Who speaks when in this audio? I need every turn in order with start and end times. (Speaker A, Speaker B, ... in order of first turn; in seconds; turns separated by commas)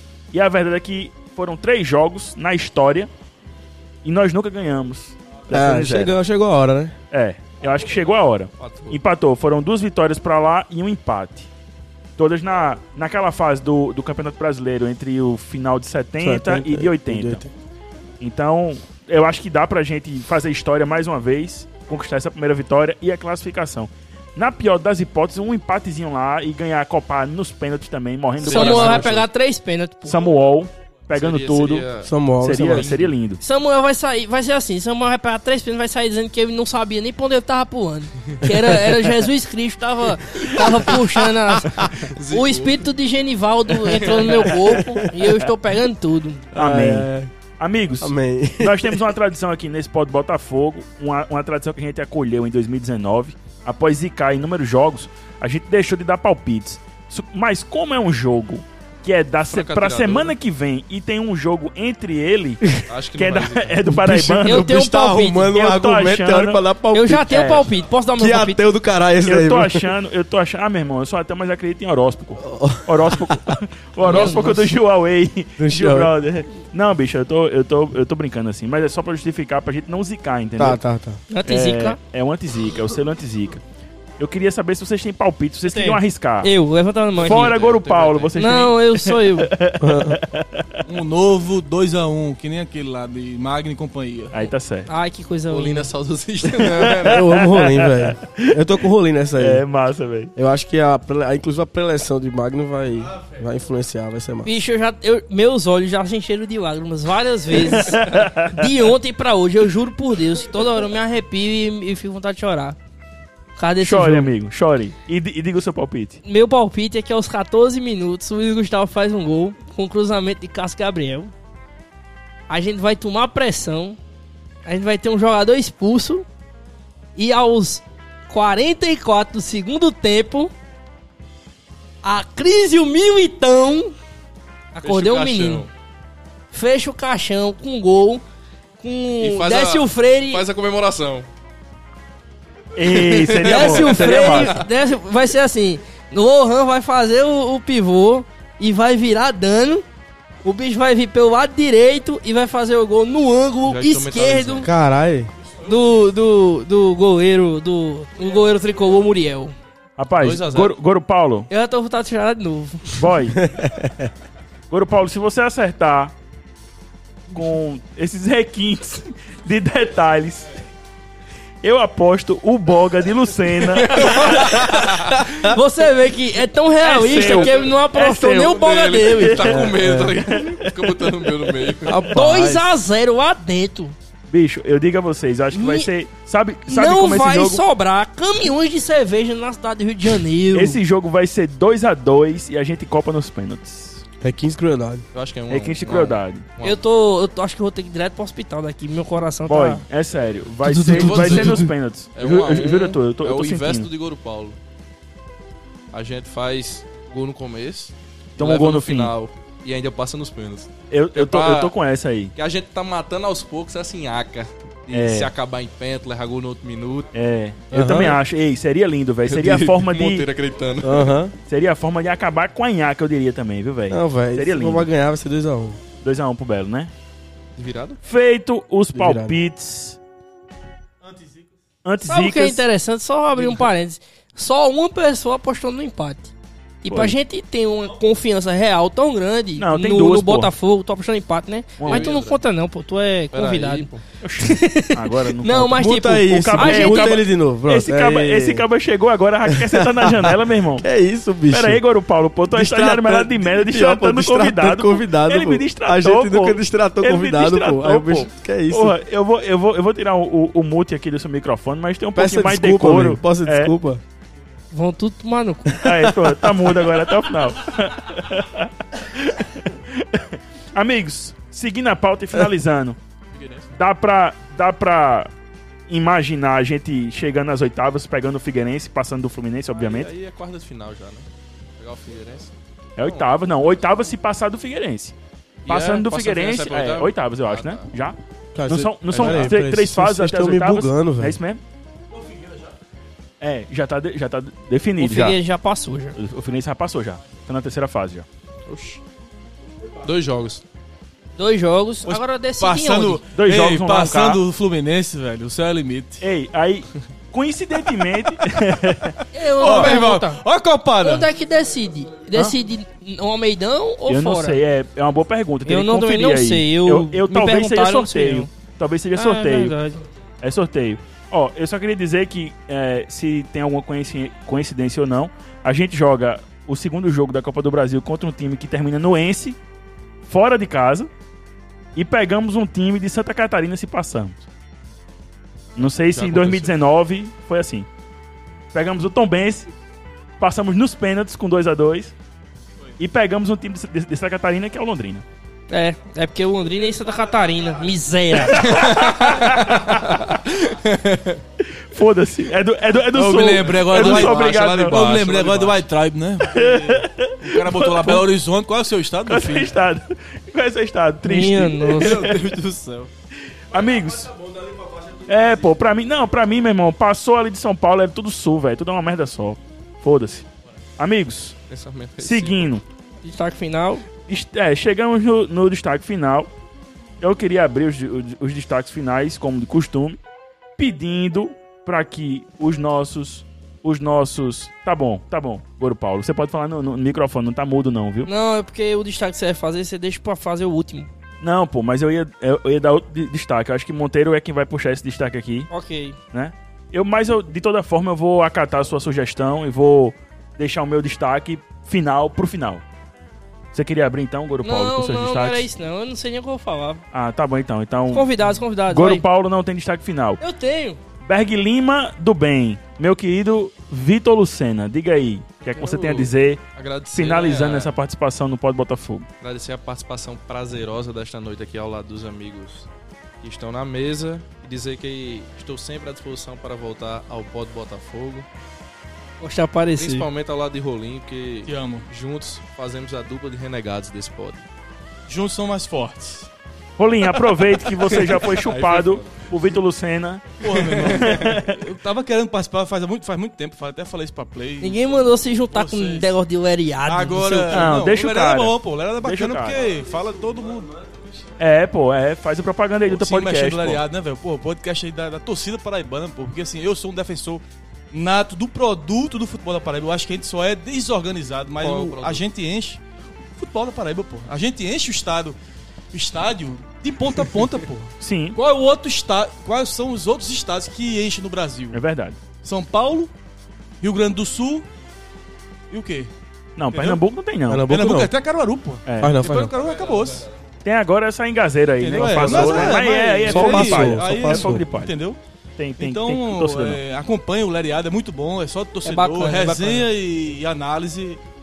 Speaker A: 0.3-3.1, Speaker A: 4.0-6.1, Speaker B: 5.5-7.0, Speaker A: 7.1-11.5, Speaker C: 8.6-9.0, Speaker A: 12.2-17.4, Speaker B: 16.2-17.5, Speaker A: 18.2-29.3, Speaker C: 28.4-29.1, Speaker D: 28.4-30.2, Speaker A: 30.1-31.9, Speaker C: 31.1-32.1, Speaker B: 32.0-33.0, Speaker A: 32.4-33.4, Speaker C: 32.7-33.1, Speaker D: 33.4-46.5, Speaker C: 41.8-42.8, Speaker C: 43.9-44.6, Speaker B: 46.5-47.3, Speaker A: 46.5-64.8, Speaker B: 48.0-49.1, Speaker C: 59.5-60.4, Speaker C: 62.9-63.9, Speaker B: 63.9-67.6, Speaker D: 64.4-65.5, Speaker A: 65.5-66.6, Speaker D: 66.9-68.6, Speaker A: 67.2-67.7, Speaker B: 68.2-69.9, Speaker A: 69.2-80.8, Speaker B: 72.4-74.6, Speaker D: 74.0-74.7, Speaker B: 75.6-76.1, Speaker B: 80.6-81.2, Speaker D: 81.3-82.0, Speaker A: 81.5-83.6, Speaker A: 84.2-86.5, Speaker D: 85.7-87.5, Speaker C: 87.2-88.3, Speaker A: 87.2-90.8, Speaker D: 88.4-89.5, Speaker B: 89.8-90.2, Speaker E: 90.9-94.4, Speaker A: 94.3-94.9, Speaker D: 94.9-95.9, Speaker C: 95.5-97.4, Speaker A: 96.6-98.6, Speaker B: 97.0-99.6, Speaker A: 99.4-100.3, Speaker B: 100.4-104.5, Speaker D: 104.4-112.8, Speaker A: 107.5-108.9, Speaker D: 113.6-114.3, Speaker A: 113.8-116.2, Speaker D: 116.2-121.3, Speaker D: 122.5-124.0, Speaker D: 124.7-126.3, Speaker D: 127.2-130.5, Speaker D: 132.0-133.9, Speaker D: 134.7-135.7, Speaker C: 134.8-135.7, Speaker D: 136.5-138.2, Speaker D: 138.8-140.4, Speaker C: 139.2-141.3, Speaker A: 142.8-144.6, Speaker C: 142.8-144.7, Speaker D: 143.4-149.8, Speaker D: 150.4-154.7, Speaker C: 153.7-154.7, Speaker B: 154.6-155.3, Speaker D: 155.6-159.5, Speaker A: 160.0-161.5, Speaker C: 160.2-160.7, Speaker D: 161.5-163.1, Speaker A: 163.0-163.5, Speaker B: 163.4-164.1, Speaker A: 164.7-166.1, Speaker A: 167.3-170.6, Speaker A: 171.6-174.8, Speaker C: 173.7-175.2, Speaker D: 175.4-179.6, Speaker A: 176.8-182.3, Speaker C: 177.1-177.6, Speaker C: 178.5-182.1, Speaker B: 179.4-180.2, Speaker B: 181.9-182.6, Speaker D: 182.1-183.9, Speaker A: 184.3-187.6, Speaker D: 185.5-185.9, Speaker D: 186.7-190.8, Speaker A: 190.5-194.0, Speaker B: 194.2-195.1, Speaker C: 195.1-196.8, Speaker A: 195.5-196.4, Speaker D: 196.6-199.8, Speaker A: 199.5-203.9, Speaker B: 200.8-201.1, Speaker C: 200.8-204.6, Speaker E: 200.9-201.6, Speaker C: 205.9-211.8, Speaker A: 208.4-209.1, Speaker A: 210.9-212.3, Speaker C: 212.3-217.1, Speaker A: 214.9-215.3, Speaker A: 217.1-220.3, Speaker B: 217.7-218.2, Speaker C: 219.3-221.1, Speaker B: 220.8-221.3, Speaker A: 221.5-224.9, Speaker B: 223.9-225.8, Speaker A: 226.0-226.9, Speaker C: 227.6-228.0, Speaker A: 228.0-230.0, Speaker B: 228.9-229.4, Speaker E: 231.0-231.5, Speaker A: 231.8-232.7, Speaker D: 232.1-247.2, Speaker A: 236.9-237.2, Speaker A: 239.6-240.5, Speaker A: 241.8-242.1, Speaker C: 241.9-242.4, Speaker C: 243.3-244.0, Speaker A: 244.2-250.9, Speaker B: 245.8-248.7, Speaker B: 249.5-251.8, Speaker A: 251.5-263.7, Speaker B: 252.5-258.9, Speaker B: 262.1-264.0, Speaker D: 264.7-265.9, Speaker A: 265.8-273.0, Speaker B: 265.9-266.6, Speaker C: 273.3-273.7, Speaker A: 273.8-275.3, Speaker A: 275.9-280.1, Speaker C: 279.7-281.3, Speaker C: 281.8-283.3, Speaker A: 283.0-285.1, Speaker C: 285.6-287.9, Speaker A: 285.7-291.6, Speaker B: 288.6-291.4, Speaker C: 289.1-289.6, Speaker A: 293.4-295.4, Speaker D: 295.0-296.2, Speaker A: 296.2-298.3, Speaker C: 298.7-299.0, Speaker C: 300.0-300.6, Speaker D: 301.4-303.2, Speaker E: 302.1-306.2, Speaker A: 303.3-304.4, Speaker A: 306.2-309.2, Speaker D: 309.3-310.4, Speaker E: 309.6-311.3, Speaker D: 311.0-314.6, Speaker A: 314.1-319.8, Speaker D: 315.6-318.5, Speaker D: 319.1-320.0, Speaker A: 320.4-329.6, Speaker A: 330.3-331.1, Speaker A: 331.9-334.4, Speaker A: 335.8-337.9, Speaker C: 335.8-336.8, Speaker A: 338.7-339.7, Speaker A: 340.4-342.1, Speaker A: 343.0-345.2, Speaker D: 345.7-349.4, Speaker A: 348.5-350.4, Speaker C: 349.0-351.4, Speaker A: 351.6-355.2, Speaker E: 353.1-359.7, Speaker C: 353.7-355.8, Speaker A: 356.4-358.3, Speaker A: 359.3-362.5, Speaker D: 361.2-362.3, Speaker C: 362.0-363.1, Speaker A: 363.7-364.3, Speaker A: 365.3-370.5, Speaker A: 371.0-371.6, Speaker C: 371.7-372.7, Speaker A: 372.2-372.8, Speaker D: 373.2-374.1, Speaker A: 374.3-376.5, Speaker A: 377.2-380.2, Speaker A: 380.8-388.3, Speaker D: 388.2-391.1, Speaker A: 391.4-395.7, Speaker D: 395.7-396.2, Speaker A: 396.3-402.8, Speaker A: 403.7-405.7, Speaker D: 404.6-407.0, Speaker A: 407.1-410.4, Speaker D: 408.1-409.2, Speaker D: 410.4-411.0, Speaker A: 411.2-416.6, Speaker C: 415.7-417.9, Speaker A: 417.1-419.3, Speaker C: 419.4-422.9, Speaker C: 423.4-428.5, Speaker D: 429.4-430.3, Speaker C: 430.0-434.6, Speaker E: 431.7-432.1, Speaker E: 435.3-436.5, Speaker A: 437.0-441.8, Speaker C: 438.0-439.5, Speaker E: 440.6-445.1, Speaker C: 440.7-441.3, Speaker D: 444.8-447.9, Speaker E: 445.7-446.3, Speaker E: 447.1-451.0, Speaker A: 447.7-449.8, Speaker A: 451.6-454.0, Speaker E: 453.1-463.0, Speaker C: 461.8-462.4, Speaker E: 463.6-465.6, Speaker E: 466.1-472.0, Speaker A: 468.2-468.6, Speaker A: 471.9-472.4, Speaker E: 472.6-473.3, Speaker E: 474.0-474.9, Speaker E: 475.9-476.3, Speaker A: 476.8-477.9, Speaker E: 476.9-477.2, Speaker B: 477.7-478.3, Speaker E: 477.9-480.4, Speaker A: 479.1-479.4, Speaker B: 479.2-479.7, Speaker A: 480.8-485.1, Speaker E: 482.0-485.4, Speaker C: 482.4-482.8, Speaker B: 483.5-484.8, Speaker A: 485.8-487.0, Speaker E: 486.0-491.4, Speaker D: 489.0-490.1